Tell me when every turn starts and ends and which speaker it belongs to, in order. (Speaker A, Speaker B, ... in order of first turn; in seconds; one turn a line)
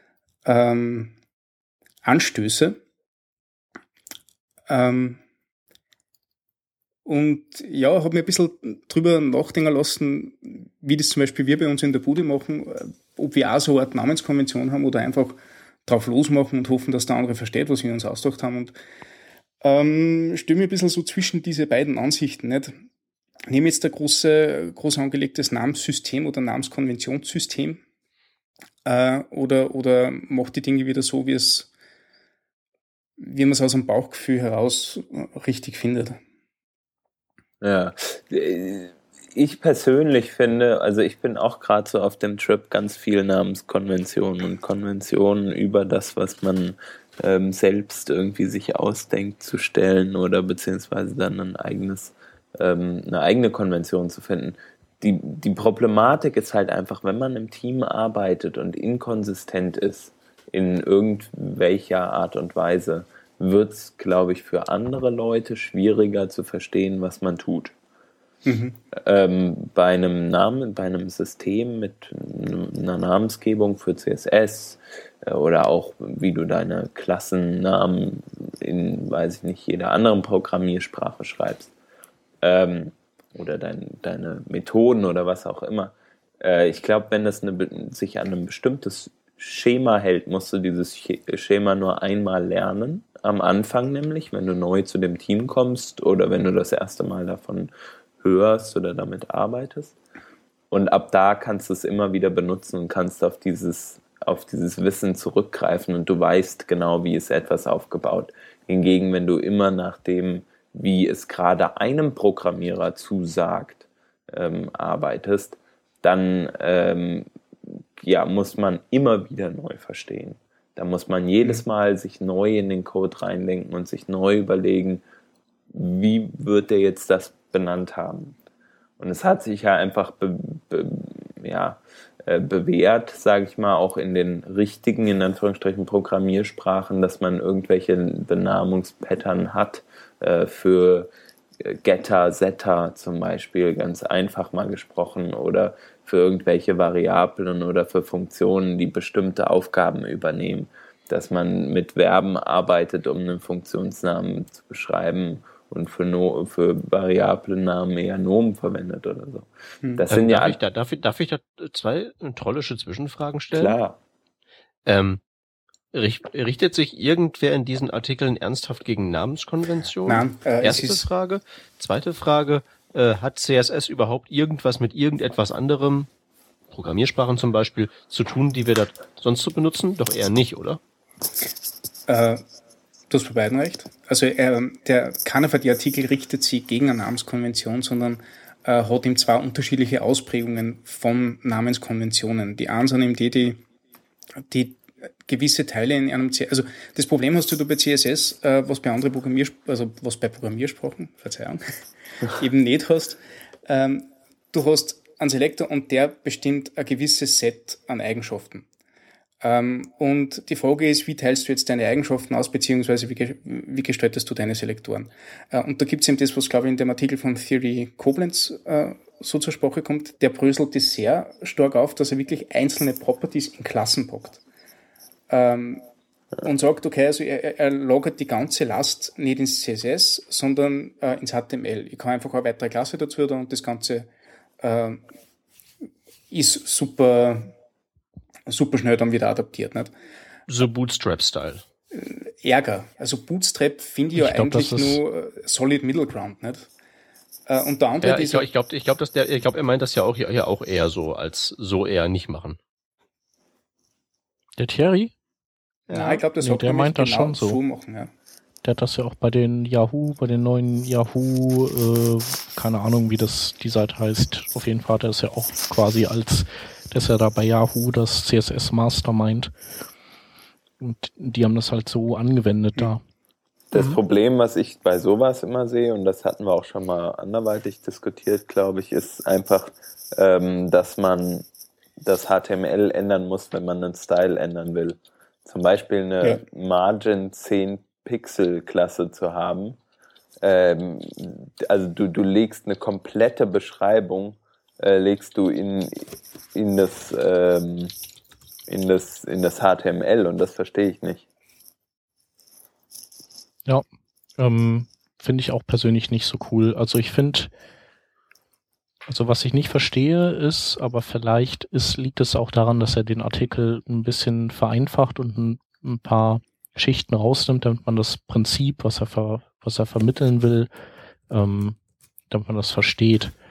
Speaker A: 0.4-1.1
Speaker A: 2.0-2.8
Speaker A: 4.7-5.2
Speaker A: 7.0-18.8
Speaker A: 19.6-22.7
Speaker A: 23.5-27.8
Speaker A: 28.8-31.7
Speaker A: 33.2-36.2
Speaker B: 37.6-67.7
Speaker A: 68.4-68.8
Speaker B: 69.0-81.7
Speaker B: 82.4-100.0
Speaker B: 100.7-125.0
Speaker B: 125.7-128.3
Speaker B: 129.0-141.1
Speaker B: 141.6-160.6
Speaker C: 160.1-163.8
Speaker B: 163.5-164.0
Speaker C: 164.8-165.2
Speaker C: 165.9-176.1
Speaker A: 170.1-171.1
Speaker C: 176.7-180.8
Speaker A: 182.1-182.4
Speaker A: 183.1-193.6
Speaker A: 194.4-208.7
Speaker A: 209.4-224.4
Speaker A: 225.3-225.8
Speaker A: 226.4-234.1
Speaker A: 234.6-235.0
Speaker A: 236.3-237.5
Speaker A: 238.4-239.9
Speaker C: 240.5-241.6
Speaker A: 241.9-246.7
Speaker D: 244.2-245.0
Speaker A: 247.5-248.4
Speaker C: 248.0-252.6
Speaker D: 254.6-255.1
Speaker C: 255.9-256.2
Speaker A: 255.9-258.1
Speaker D: 256.4-257.6
Speaker D: 258.6-269.5
Speaker D: 270.8-273.0
Speaker B: 273.7-281.4
Speaker B: 282.0-289.8
Speaker B: 290.4-297.9
Speaker B: 298.7-301.2
Speaker D: 304.4-307.5
Speaker D: 309.1-320.7
Speaker D: 321.3-321.8
Speaker D: 322.3-323.3